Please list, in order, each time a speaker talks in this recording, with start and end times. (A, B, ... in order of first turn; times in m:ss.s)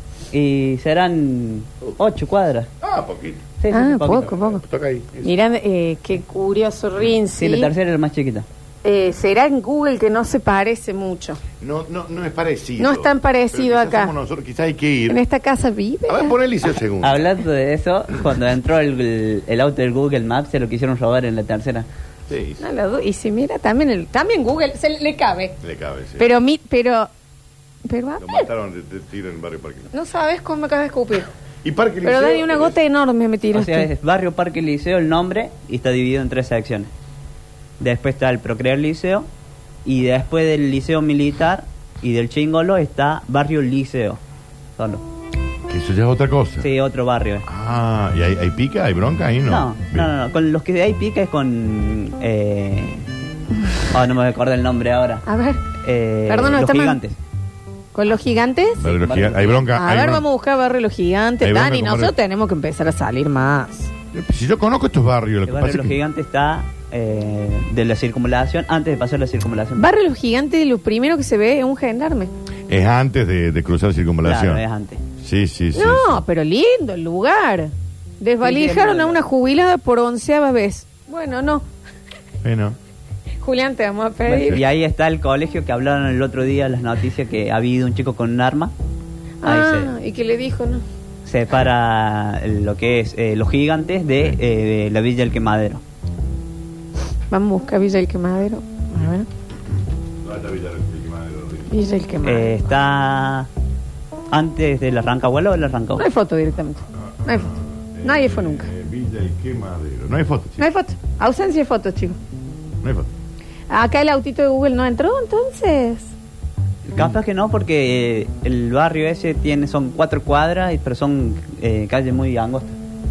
0:00.3-0:02.7 A
0:02.8-0:03.5 B
0:03.6-0:04.4 A
0:03.7-0:04.6 C
0:04.6-0:05.3 B
0:05.2-0:07.7 C
0:07.4-0:08.4 A
0:08.8-0:11.4 C
0:11.6-0:15.2 B
0:12.8-0:14.1 C
0:15.1-0:16.3 C
0:16.1-0:17.2 B
0:17.0-0:21.9 A
0:22.3-0:22.6 B
0:22.6-0:25.6 C
0:25.6-0:26.3 B
0:26.2-0:27.1 C
0:27.9-0:28.5 C
0:28.2-0:29.9 B
0:29.9-0:31.3 C
0:31.6-0:32.8 B
0:32.0-0:33.9 C
0:33.5-0:36.9 A
0:37.8-0:39.3 A
0:39.8-0:44.2 A
0:44.8-0:45.0 A
0:45.7-0:46.7 B
0:46.6-0:47.4 A
0:47.4-0:50.1 B
0:49.4-0:53.0 A
0:53.9-0:55.2 A
0:55.2-0:55.6 C
0:55.8-0:57.2 A
0:56.3-0:57.0 C
0:57.9-0:58.8 C
0:58.8-1:00.2 B
0:58.8-0:59.7 A
0:59.7-1:03.9 C
1:01.4-1:02.1 B
1:04.1-1:06.0 B
1:05.4-1:09.9 A
1:09.8-1:12.3 C
1:12.7-1:14.6 B
1:14.2-1:15.0 A
1:15.2-1:16.2 B
1:15.7-1:21.6 C
1:18.4-1:19.2 A
1:22.4-1:22.8 B
1:23.4-1:24.6 C
1:24.3-1:28.7 A
1:29.4-1:30.8 C
1:29.4-1:29.9 A
1:31.2-1:35.8 A
1:37.3-1:39.3 C
1:40.2-1:41.7 B
1:41.7-1:42.5 C
1:42.2-1:43.5 A
1:44.3-1:46.0 A
1:46.0-1:47.5 C
1:47.1-1:50.6 B
1:48.0-1:48.7 C
1:50.6-1:52.2 C
1:52.8-1:53.1 B
1:53.7-1:56.1 C
1:56.9-2:02.8 A